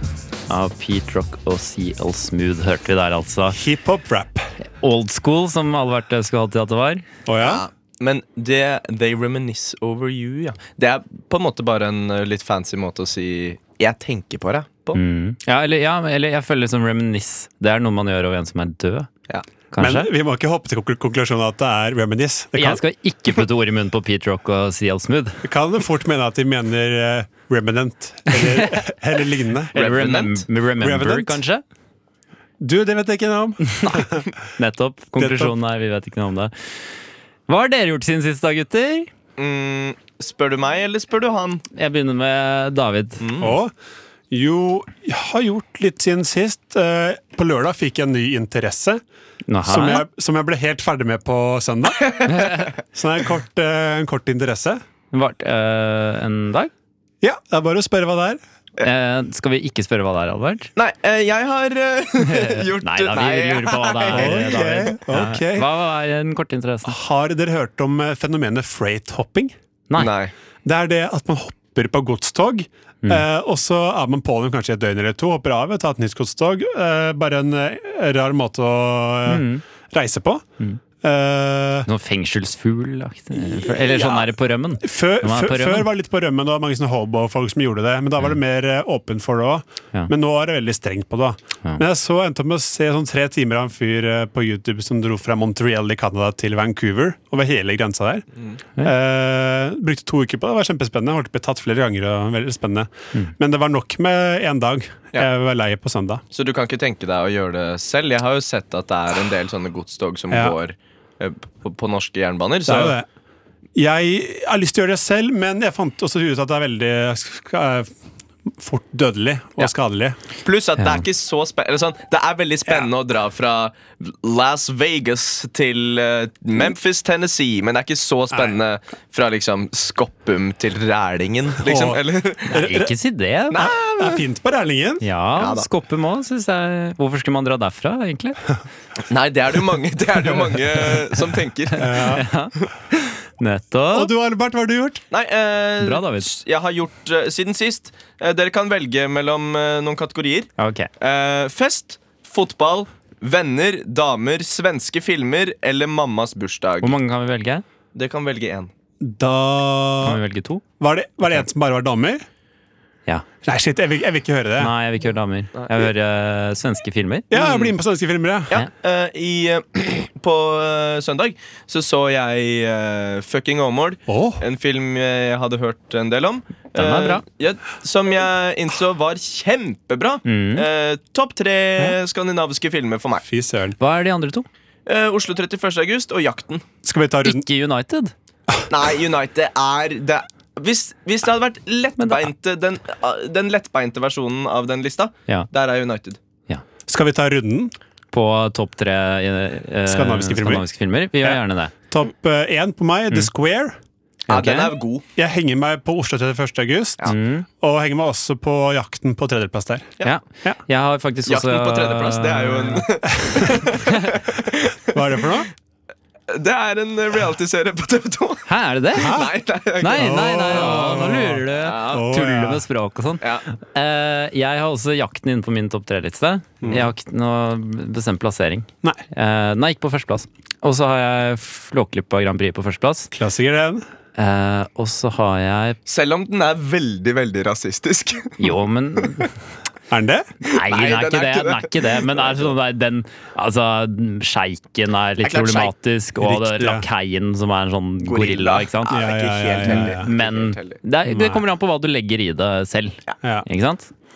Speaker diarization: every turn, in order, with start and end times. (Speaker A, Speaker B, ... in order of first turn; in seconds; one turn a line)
Speaker A: 0.5-3.6
Speaker B: 3.5-4.5
Speaker A: 4.6-7.1
Speaker B: 7.3-7.6
Speaker C: 7.4-15.0
Speaker A: 14.9-19.1
Speaker A: 19.7-20.1
Speaker B: 19.8-22.8
Speaker A: 22.6-25.4
Speaker B: 25.4-29.7
Speaker A: 28.3-28.9
Speaker A: 29.7-31.6
Speaker C: 29.7-30.5
Speaker B: 30.8-31.4
Speaker B: 32.6-34.3
Speaker A: 33.8-36.5
Speaker B: 35.2-35.5
Speaker A: 37.5-39.1
Speaker C: 39.4-41.6
Speaker A: 41.7-43.2
Speaker C: 43.2-43.5
Speaker B: 43.4-43.7
Speaker B: 44.3-49.0
Speaker A: 49.5-50.0
Speaker B: 49.6-52.2
Speaker C: 52.1-52.5
Speaker A: 52.3-52.7
Speaker B: 52.9-54.8
Speaker A: 55.1-56.7
Speaker B: 57.2-58.4
Speaker A: 58.8-60.7
Speaker C: 60.8-65.0
Speaker A: 62.2-67.0
Speaker B: 64.1-65.7
Speaker B: 66.8-69.5
Speaker C: 70.0-70.3
Speaker B: 70.7-80.4
Speaker A: 79.2-79.6
Speaker B: 81.0-81.9
Speaker A: 81.9-85.9
Speaker B: 83.3-84.3
Speaker B: 84.8-98.2
Speaker B: 98.8-106.2
Speaker C: 106.3-113.0
Speaker B: 110.3-110.6
Speaker B: 112.7-113.1
Speaker B: 113.8-117.9
Speaker B: 118.5-120.2
Speaker C: 120.4-132.6
Speaker A: 120.8-121.0
Speaker B: 131.6-132.9
Speaker A: 132.5-133.7
Speaker C: 133.5-134.2
Speaker B: 134.0-135.0
Speaker A: 135.0-138.4
Speaker C: 135.4-135.7
Speaker C: 139.1-141.9
Speaker B: 141.8-142.3
Speaker A: 142.0-142.5
Speaker A: 143.4-144.1
Speaker B: 143.9-145.0
Speaker C: 145.1-157.0
Speaker A: 145.8-146.3
Speaker A: 150.6-150.9
Speaker A: 156.8-157.6
Speaker C: 157.9-158.7
Speaker B: 159.0-160.2
Speaker A: 160.0-160.6
Speaker B: 160.8-162.2
Speaker B: 163.4-164.7
Speaker A: 164.6-167.3
Speaker B: 167.3-168.5
Speaker C: 167.3-167.7
Speaker C: 168.5-183.2
Speaker B: 174.1-174.4
Speaker A: 176.8-177.2
Speaker A: 180.2-180.7
Speaker B: 183.2-183.8
Speaker A: 183.8-184.5
Speaker C: 184.8-186.7
Speaker B: 186.8-187.5
Speaker A: 187.2-188.1
Speaker C: 188.7-196.2
Speaker A: 192.0-192.3
Speaker B: 196.9-197.7
Speaker A: 198.1-201.7
Speaker B: 199.8-200.7
Speaker B: 201.2-203.8
Speaker A: 204.3-204.7
Speaker C: 204.3-205.0
Speaker B: 205.2-209.9
Speaker A: 207.0-207.5
Speaker A: 210.0-212.9
Speaker C: 211.3-215.4
Speaker A: 213.5-214.1
Speaker B: 214.9-215.5
Speaker C: 216.3-221.0
Speaker A: 218.5-219.2
Speaker B: 219.0-219.3
Speaker A: 219.8-233.1
Speaker B: 219.9-222.6
Speaker C: 221.6-222.1
Speaker B: 226.6-226.9
Speaker B: 233.1-233.8
Speaker A: 234.2-235.8
Speaker C: 235.8-238.5
Speaker A: 238.4-239.3
Speaker B: 239.9-240.3
Speaker A: 240.4-249.0
Speaker C: 240.5-242.5
Speaker C: 245.2-245.7
Speaker B: 246.2-246.8
Speaker C: 248.0-250.8
Speaker B: 248.9-250.1
Speaker A: 249.6-253.9
Speaker B: 251.1-251.4